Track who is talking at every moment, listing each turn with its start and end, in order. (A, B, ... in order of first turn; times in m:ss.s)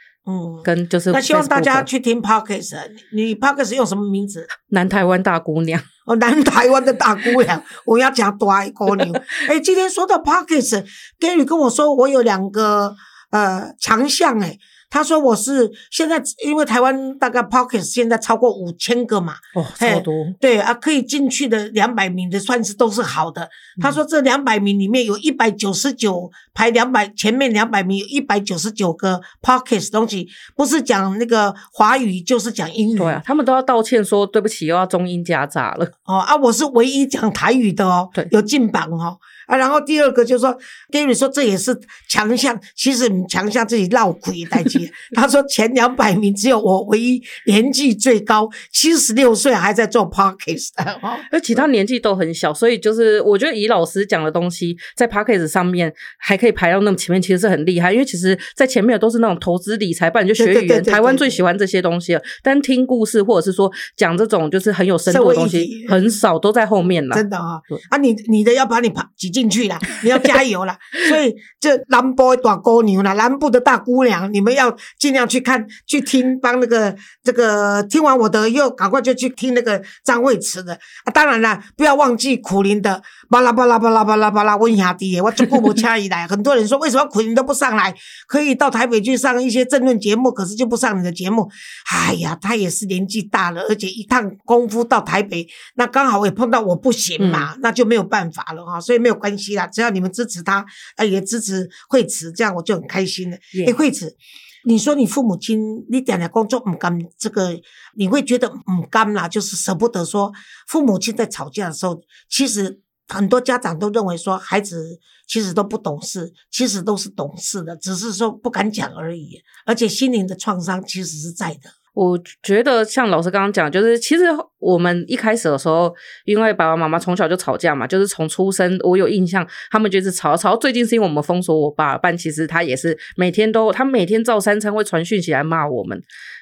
0:00.2-0:04.5 A
0:00.6-0:01.9 B
0:04.7-0:05.8 B
0:06.0-0:33.2 A
0:19.5-0:20.4 B
0:33.0-0:35.9 B
0:36.0-0:51.6 A
0:51.3-1:07.2 B
1:00.4-1:01.4 A
1:05.1-1:06.1 A
1:07.1-2:01.7 A
1:37.2-1:37.5 B
2:01.9-2:16.0 B